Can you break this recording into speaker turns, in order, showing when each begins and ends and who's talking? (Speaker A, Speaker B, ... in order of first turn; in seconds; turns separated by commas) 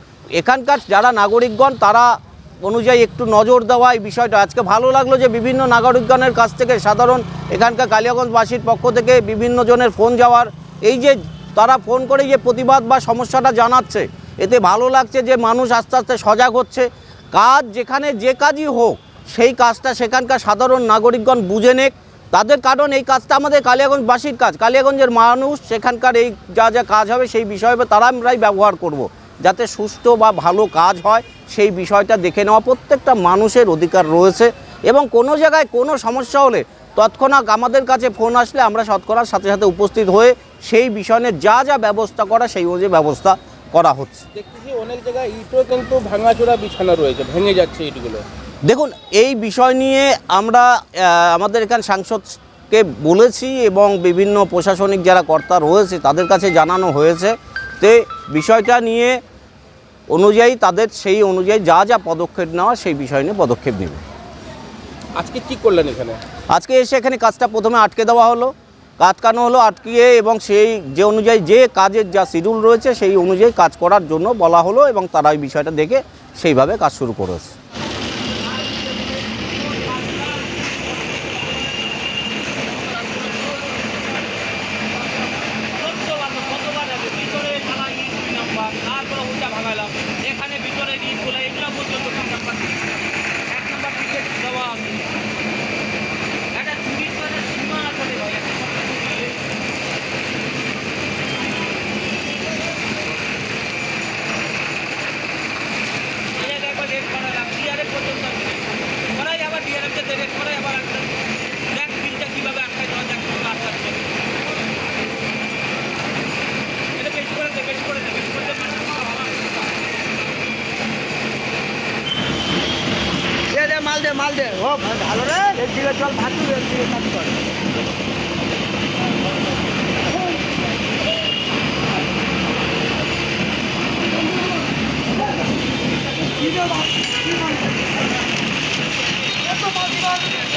Speaker A: 0.4-2.1, Speaker A: 2.6-44.2, Speaker B: 44.4-48.2, Speaker A: 48.6-59.2, Speaker A: 60.1-64.0, Speaker B: 65.2-66.2, Speaker A: 66.5-77.5, Speaker C: 79.6-82.1, Speaker C: 82.6-84.1, Speaker C: 85.6-92.9, Speaker C: 93.5-95.1, Speaker C: 96.5-99.4, Speaker C: 106.3-111.1, Speaker C: 111.7-114.1, Speaker C: 117.0-119.7, Speaker D: 123.5-127.5, Speaker C: 123.5-124.3